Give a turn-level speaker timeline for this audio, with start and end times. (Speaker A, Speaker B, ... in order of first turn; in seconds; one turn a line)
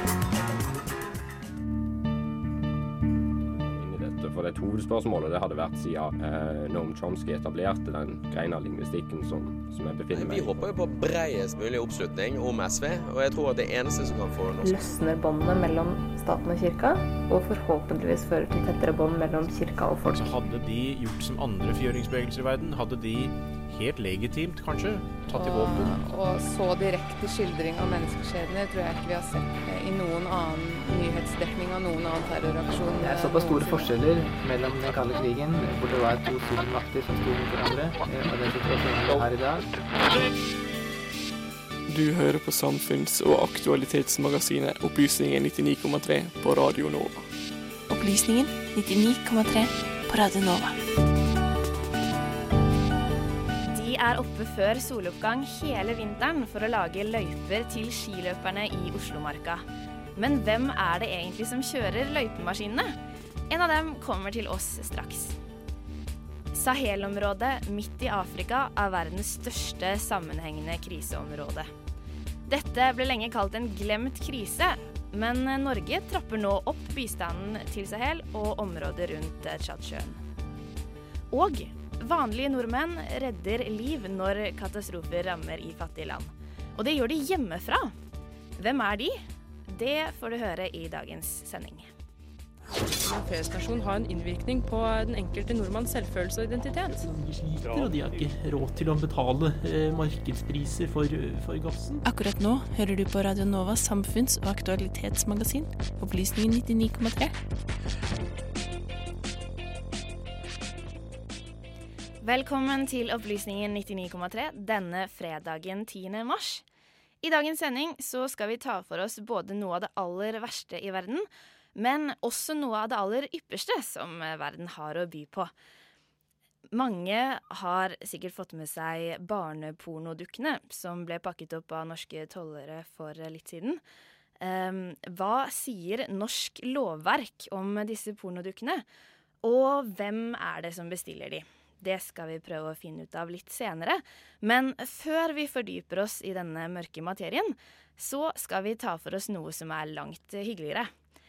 Speaker A: 3.5-10.7
Speaker B: 10.1-14.8
Speaker C: 14.7-20.1
Speaker D: 20.1-26.0
Speaker E: 25.3-33.9
Speaker F: 33.0-39.7
Speaker G: 41.9-47.3
Speaker H: 47.9-50.7
Speaker I: 53.7-63.0
Speaker I: 63.5-65.3
Speaker I: 66.5-71.7
Speaker I: 72.5-80.2
Speaker I: 81.3-88.0
Speaker I: 88.6-91.9
Speaker E: 93.0-93.3
Speaker J: 97.1-102.0
Speaker H: 102.0-107.3
Speaker I: 112.2-116.6
Speaker I: 117.2-125.5
Speaker I: 126.7-133.8
Speaker I: 134.4-138.8
Speaker I: 139.4-150.9